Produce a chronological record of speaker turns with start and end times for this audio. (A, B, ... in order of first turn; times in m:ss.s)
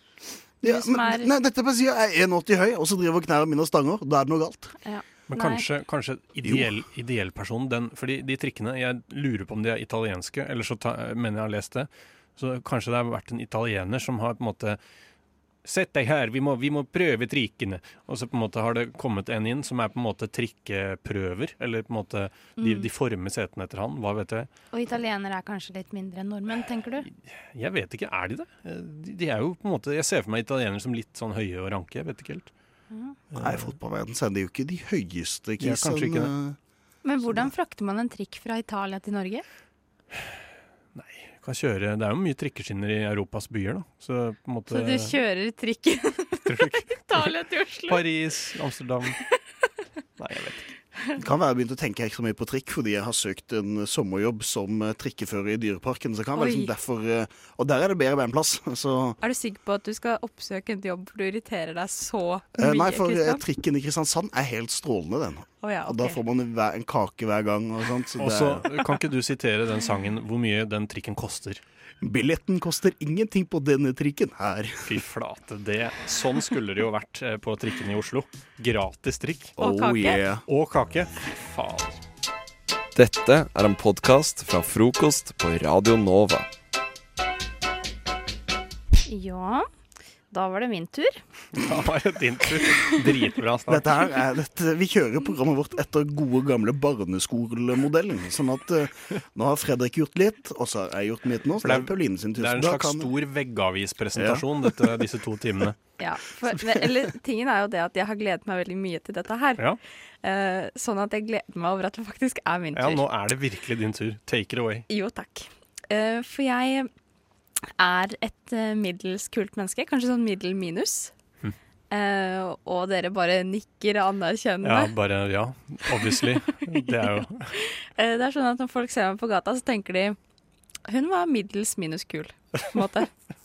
0:00.6-0:01.3 A
0:00.6-0:04.7 B
0:04.8-0:05.6 A
0:05.3-0:14.8 C
0:06.4-0:06.7 B
0:15.6-0:24.5 C
0:22.6-0:22.9 A
0:24.7-0:27.0 A
0:27.0-0:32.5 C
0:32.9-0:33.2 A
0:33.3-0:33.7 C
0:33.3-0:36.6 B
0:35.6-0:36.3 C
0:37.0-0:39.4 A
0:40.9-0:45.1 C
0:44.7-0:48.1 A
0:46.4-0:47.3 C
0:47.9-0:49.2 C
0:50.2-0:50.6 C
0:51.2-0:59.2 B
0:56.3-0:56.7 A
0:59.2-1:03.4 A
1:02.5-1:08.7 B
1:05.6-1:06.2 A
1:08.2-1:11.6 C
1:12.0-1:14.9 B
1:14.8-1:19.5 C
1:19.6-1:20.2 A
1:19.6-1:20.4 B
1:20.5-1:22.0 C
1:22.9-1:26.5 D
1:29.0-1:29.7 A
1:30.3-1:31.2 A
1:31.5-1:33.9 C
1:33.7-1:43.1 B
1:41.6-1:45.8 C
1:44.1-1:44.9 B
1:46.0-1:49.7 A
1:50.2-1:53.0 A
1:52.7-1:54.8 C
1:54.9-1:56.9 A
1:57.8-2:01.1 A
2:01.9-2:04.9 A
2:04.6-2:07.5 C
2:05.9-2:10.2 A
2:10.9-2:13.1 A